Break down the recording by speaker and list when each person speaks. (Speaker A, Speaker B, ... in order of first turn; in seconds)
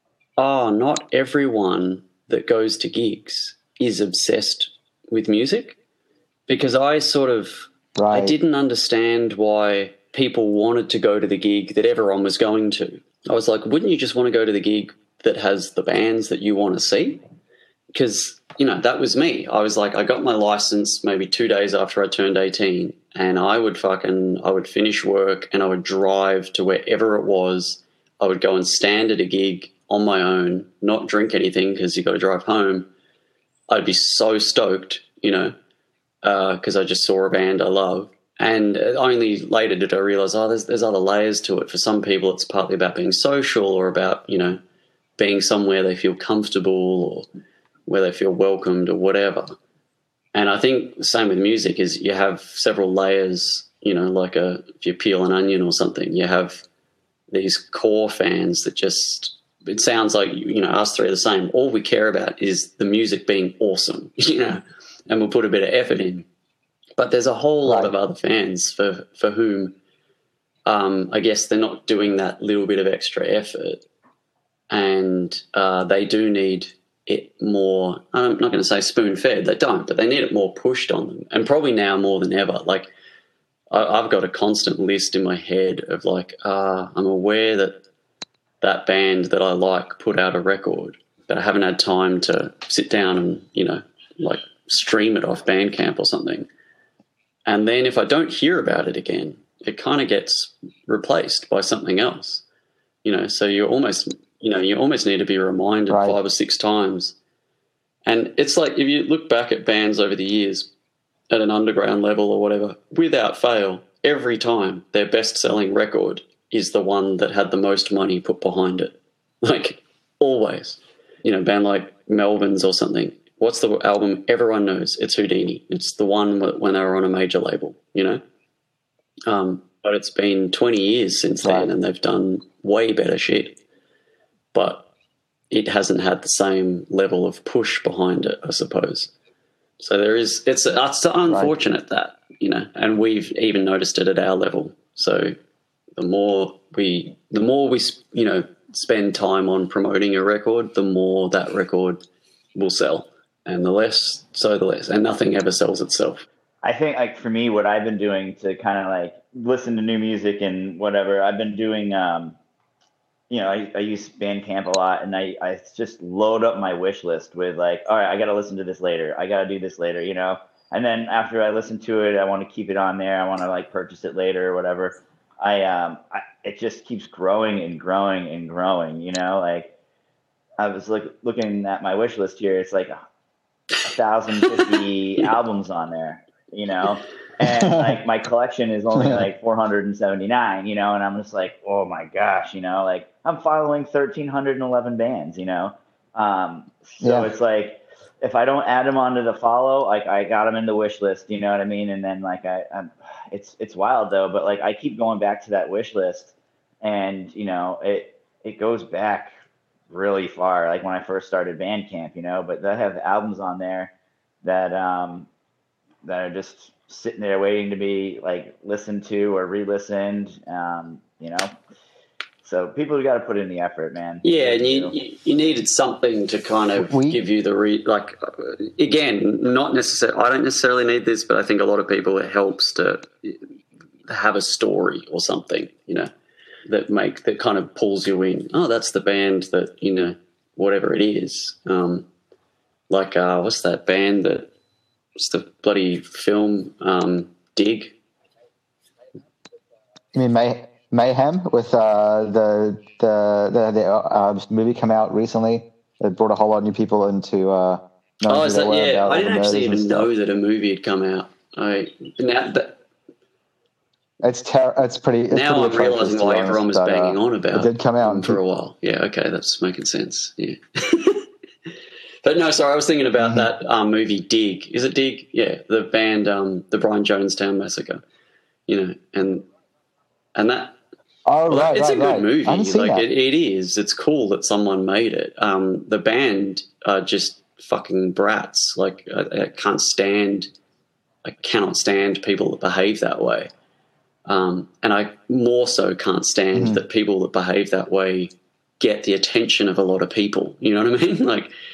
Speaker A: 0.4-5.8, 6.5-17.2, 17.9-32.9, 33.7-35.5, 36.2-44.6, 45.2-47.3, 47.9-49.6, 50.3-56.6, 57.3-66.3, 67.0-69.7, 70.7-73.8, 74.7-82.9, 83.7-87.8, 88.6-96.5, 97.5-102.4, 103.0-107.1, 108.1-110.7, 111.3-128.2, 129.3-133.5, 134.5-134.8, 135.5-139.1, 139.8-145.3, 146.0-152.0, 152.6-156.2, 224.2-233.4, 234.1-236.1, 236.7-242.1, 242.9-244.5, 245.2-247.9, 258.3-262.8, 265.3-271.3, 272.2-278.0, 278.7-279.5, 280.4-280.7, 281.5-290.5, 291.2-293.5, 294.3-301.5
Speaker B: 8.0-8.3, 67.7-67.9, 105.9-106.2, 131.4-131.7, 141.3-141.5, 187.4-187.9, 188.9-189.2, 197.0-197.3, 226.8-227.2, 250.1-260.1, 264.2-268.4, 273.2-273.5, 281.3-283.1, 296.5-296.8
Speaker C: 156.6-162.4, 163.3-179.7, 180.6-183.0, 183.8-209.3, 209.9-213.9, 214.4-215.3, 216.0-221.5, 222.4-224.9